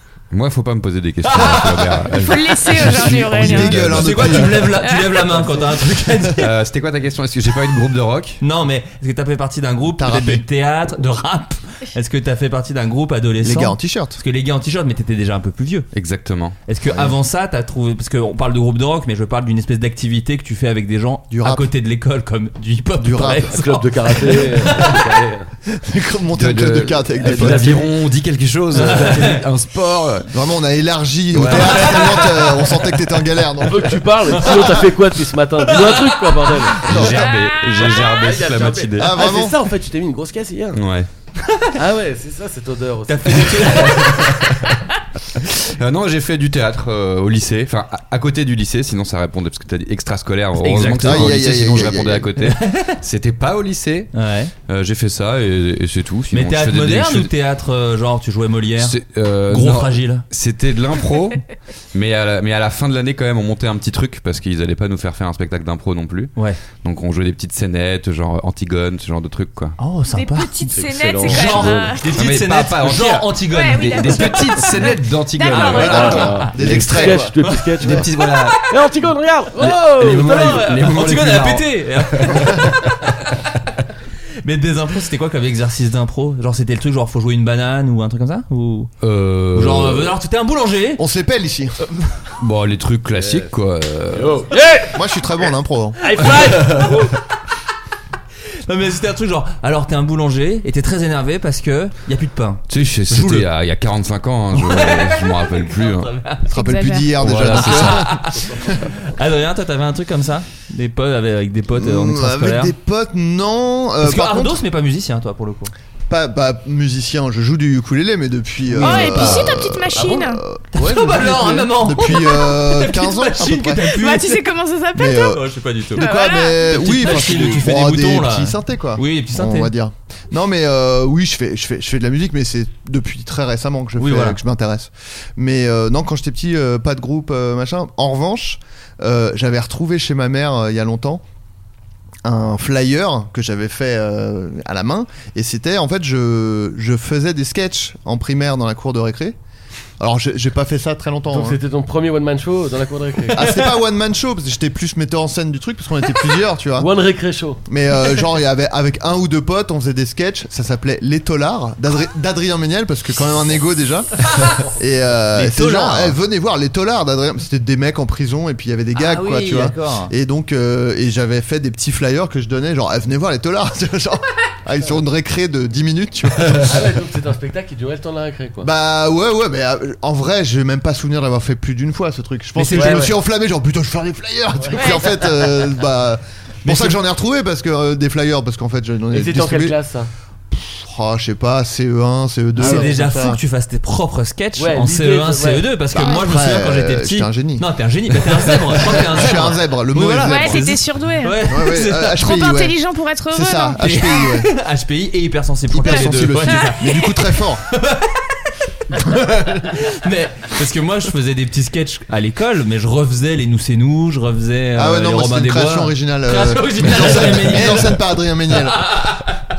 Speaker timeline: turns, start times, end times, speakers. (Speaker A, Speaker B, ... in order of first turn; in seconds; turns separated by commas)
Speaker A: 0.3-4.6, Speaker B: 1.2-2.1, Speaker C: 2.2-3.8, Speaker D: 2.9-4.8, Speaker B: 3.4-6.5, Speaker C: 4.8-5.2, Speaker A: 6.3-8.4, Speaker B: 8.4-15.9, Speaker D: 10.0-10.4, Speaker D: 13.4-14.2, Speaker A: 15.9-16.6, Speaker B: 16.7-24.7, Speaker D: 21.3-21.7, Speaker D: 23.0-23.6, Speaker E: 23.5-25.5, Speaker D: 25.7-27.8, Speaker A: 26.4-30.3, Speaker E: 27.2-27.8, Speaker B: 28.9-29.4, Speaker D: 30.3-34.7, Speaker A: 31.3-32.2, Speaker B: 31.5-32.4, Speaker E: 33.7-37.0, Speaker A: 36.8-39.2, Speaker D: 36.9-37.2, Speaker C: 37.1-38.2, Speaker E: 37.8-40.8, Speaker D: 39.0-39.5, Speaker A: 40.8-41.1, Speaker E: 41.8-44.2, Speaker B: 43.1-44.4, Speaker A: 44.0-44.6, Speaker A: 45.8-54.1, Speaker B: 50.6-51.4, Speaker D: 51.0-52.3, Speaker B: 52.5-53.0, Speaker B: 54.1-54.5, Speaker A: 54.7-57.3, Speaker B: 56.3-60.2, Speaker A: 58.8-61.4, Speaker A: 61.9-69.8, Speaker B: 69.8-70.5, Speaker C: 70.1-72.3, Speaker E: 70.7-71.9, Speaker B: 71.2-74.6, Speaker A: 72.1-77.0, Speaker C: 73.5-76.4, Speaker B: 75.5-77.6, Speaker E: 75.8-78.1, Speaker D: 76.4-78.0, Speaker A: 77.8-78.8, Speaker E: 78.6-80.7, Speaker A: 79.6-82.7, Speaker B: 79.6-83.5, Speaker B: 84.4-88.9, Speaker A: 89.0-90.2, Speaker B: 89.5-91.0, Speaker D: 91.0-91.8, Speaker A: 92.4-94.4, Speaker E: 93.1-93.5, Speaker E: 94.1-95.0, Speaker D: 94.9-96.0, Speaker B: 96.0-97.1, Speaker A: 96.2-97.0, Speaker B: 98.7-102.6, Speaker A: 102.7-106.2, Speaker D: 103.1-103.5, Speaker B: 104.5-106.4, Speaker C: 106.5-107.2, Speaker D: 106.5-108.8, Speaker A: 107.2-108.3, Speaker B: 107.5-112.7, Speaker D: 111.8-114.6, Speaker B: 114.0-115.7, Speaker D: 116.1-123.8, Speaker B: 118.8-119.4, Speaker C: 118.8-120.4, Speaker B: 120.7-124.4, Speaker C: 123.8-125.4, Speaker D: 125.0-125.4, Speaker B: 125.2-126.1, Speaker D: 126.0-141.2, Speaker C: 126.0-126.8, Speaker B: 126.6-129.7, Speaker B: 134.0-134.4, Speaker D: 142.2-149.4, Speaker D: 150.0-151.6, Speaker E: 151.3-153.5, Speaker D: 153.3-156.9, Speaker E: 156.8-157.6, Speaker D: 157.7-176.9, Speaker B: 165.4-166.2, Speaker B: 168.9-170.1, Speaker E: 176.4-178.7, Speaker D: 178.6-189.8, Speaker B: 182.6-183.1, Speaker E: 182.7-183.1, Speaker C: 184.8-185.2, Speaker B: 186.7-187.0, Speaker E: 189.1-190.1, Speaker D: 190.5-193.4, Speaker B: 192.6-202.2, Speaker E: 192.6-192.9, Speaker E: 194.6-195.7, Speaker D: 195.9-197.7, Speaker D: 198.4-200.8, Speaker C: 200.2-201.5, Speaker D: 201.4-202.8, Speaker C: 202.2-204.1, Speaker D: 203.3-204.5, Speaker B: 203.8-208.3, Speaker D: 205.7-207.7, Speaker C: 205.8-207.0, Speaker D: 208.9-209.7, Speaker B: 209.6-219.4, Speaker D: 214.8-219.1